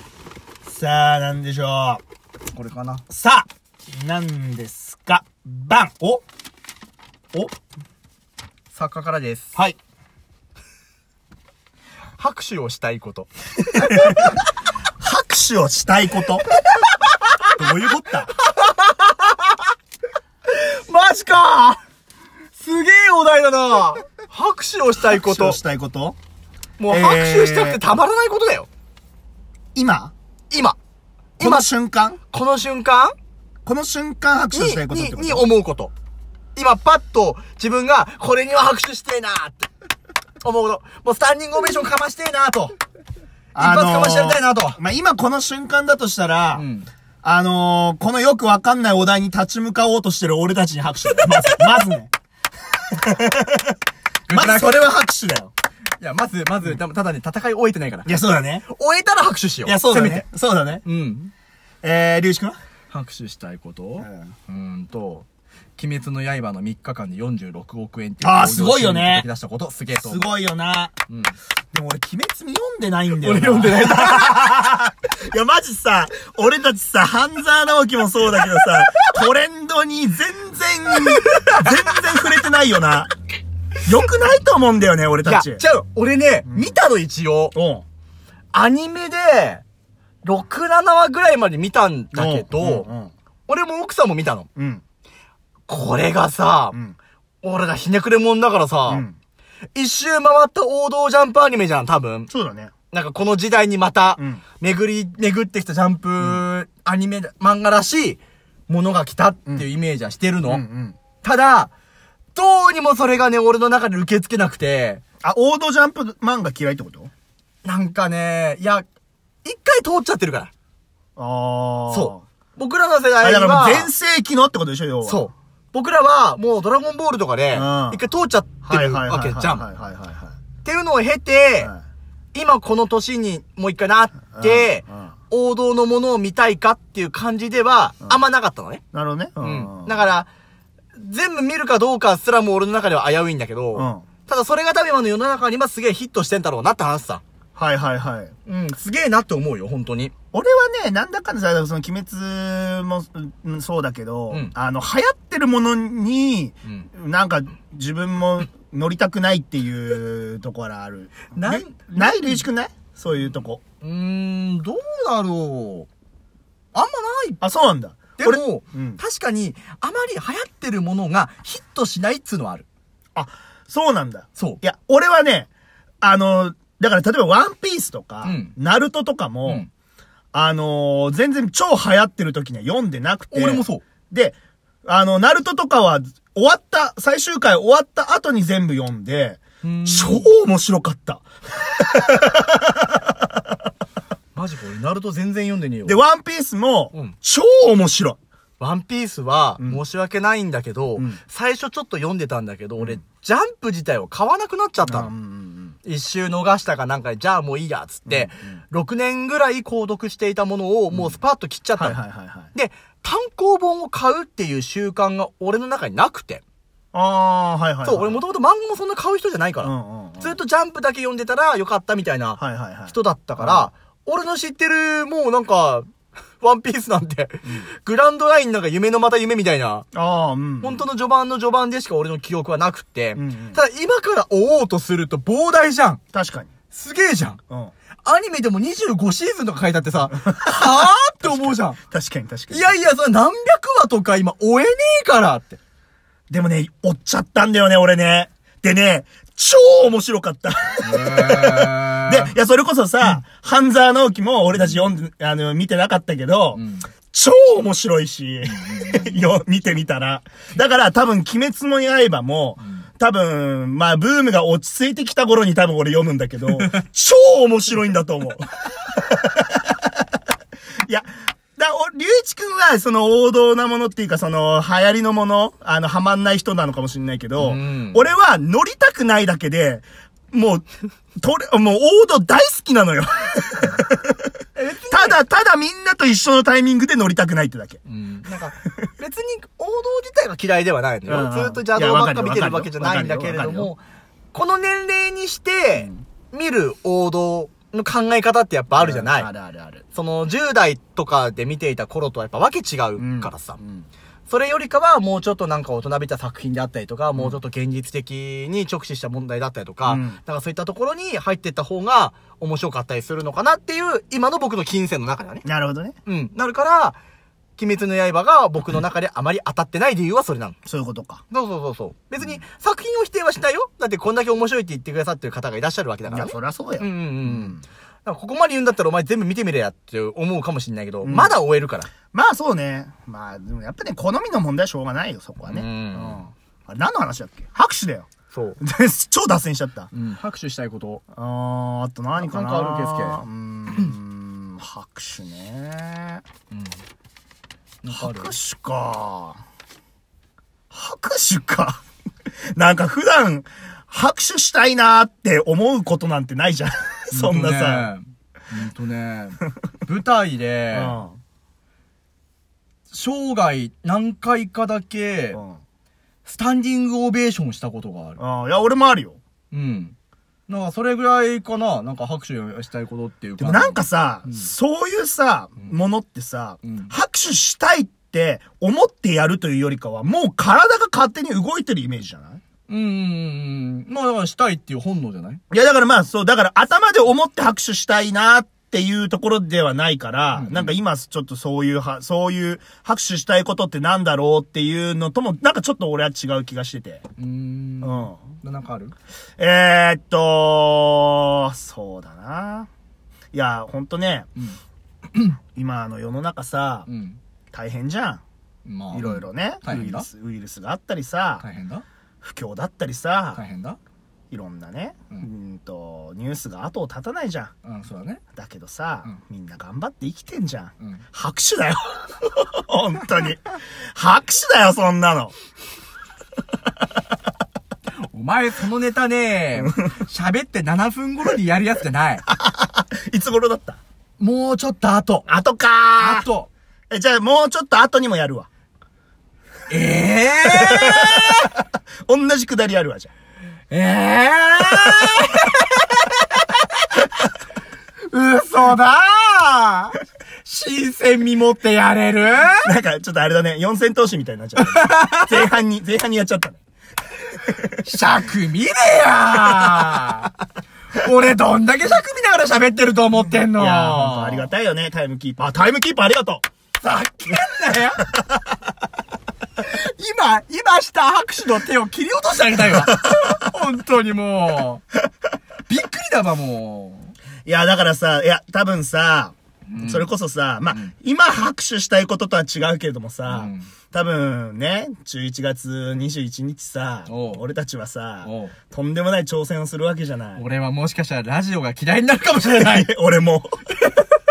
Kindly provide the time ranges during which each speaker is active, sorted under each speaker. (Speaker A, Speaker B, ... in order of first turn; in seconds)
Speaker A: 0.7-2.0, 3.1-6.2, 13.7-14.4, 15.0-16.4, 17.5-18.3, 25.0-26.2, 26.9-27.8, 29.7-30.1, 31.4-32.2, 33.6-35.5, 43.5-46.6, 47.2-52.1, 52.9-53.8, 54.3-55.5, 58.0-58.6, 59.6-60.8, 61.8-62.6, 64.0-64.3, 68.2-69.3, 69.9-70.9, 71.7-83.1, 83.8-85.6, 86.5-86.8, 87.5-87.8, 92.1-93.1, 94.5-94.8, 96.7-97.0, 98.9-99.2, 102.3-102.7, 110.4-111.0, 115.2-117.1, 121.2-122.2, 123.2-125.3, 127.5-128.0, 128.6-130.3, 134.3-135.1, 138.9-140.1, 143.7-144.0, 147.6-148.3, 150.3-163.6, 167.4-169.0, 173.1-175.5, 176.0-179.7, 180.3-193.1, 195.8-198.2, 204.8-205.8, 208.1-208.6, 210.9-211.2, 211.8-212.5, 216.9-218.2, 219.6-220.4, 222.4-223.7, 229.9-230.8, 233.2-233.6, 236.1-236.5, 241.2-242.8, 246.3-269.9, 270.9-280.6, 281.2-284.2, 284.9-287.8, 291.1-293.7, 295.8-296.0, 298.7-299.8, 303.0-303.9, 309.9-310.2, 315.4-315.9, 320.6-321.2, 326.1-327.6, 331.0-331.4, 332.1-338.1, 338.6-339.9, 341.1-346.2, 347.9-349.4, 350.7-351.8, 352.5-357.9, 360.7-361.2, 365.3-365.6, 368.2-369.2, 373.4-382.4, 385.5-397.0, 397.8-398.2, 399.4-402.7, 403.3-404.3, 405.5-406.9, 407.5-408.2, 408.9-411.4, 412.2-413.4, 414.3-417.5, 418.3-425.3, 432.3-433.8, 435.3-436.3, 436.9-438.5, 440.4-441.5, 442.1-443.1, 452.6-456.6, 463.5-466.4, 477.4-490.4, 492.4-493.5
Speaker B: 2.5-3.0, 8.7-9.5, 12.2-14.2, 16.7-17.4, 18.5-19.6, 20.5-21.8, 22.6-25.6, 26.8-28.7, 30.5-30.8, 31.4-31.7, 32.3-33.1, 34.5-35.9, 36.5-39.7, 40.4-42.8, 43.6-44.8, 46.5-46.9, 51.2-51.6, 54.3-54.9, 56.0-60.2, 60.8-61.3, 62.9-65.2, 65.8-70.2, 71.1-71.3, 73.2-74.5, 81.1-81.8, 85.2-87.5, 88.5-89.6, 90.2-92.9, 93.5-94.5, 95.7-96.8, 97.4-99.0, 99.7-102.3, 102.9-110.6, 111.2-111.7, 112.3-115.0, 117.6-118.8, 119.4-120.5, 121.9-123.9, 125.0-129.6, 130.6-131.7, 132.3-138.8, 139.4-140.3, 141.0-147.2, 148.5-150.1, 161.3-162.4, 163.8-165.9, 166.7-167.4, 168.2-172.7, 178.2-178.5, 183.3-183.8, 189.6-190.3, 194.3-196.0, 198.6-205.1, 205.8-212.0, 212.5-216.4, 217.8-225.9, 226.4-229.8, 230.6-236.0, 236.7-237.4, 238.0-241.8, 242.5-245.6, 250.8-252.3, 256.6-256.9, 258.5-259.2, 277.4-278.1, 284.5-285.2, 287.9-293.8, 294.3-299.3, 299.9-303.6, 304.3-315.4, 316.1-317.0, 317.6-320.6, 321.3-331.9, 335.4-336.2, 338.3-338.6, 339.9-341.0, 342.2-343.2, 346.5-346.8, 347.8-348.3, 357.1-361.0, 362.9-365.4, 366.2-368.2, 369.5-369.9, 370.5-374.4, 376.6-376.9, 382.7-385.4, 390.3-390.7, 397.2-398.9, 406.9-407.2, 408.6-410.1, 411.4-411.8, 413.3-413.8, 417.6-418.2, 428.0-432.2, 434.2-435.2, 436.0-436.5, 439.7-441.5, 443.7-446.9, 448.1-452.7, 454.6-455.4, 457.8-460.3, 460.9-464.5, 466.8-468.0, 469.6-474.8, 475.7-477.1, 479.7-480.1, 483.2-483.7, 487.1-487.4, 488.2-488.6, 490.4-492.9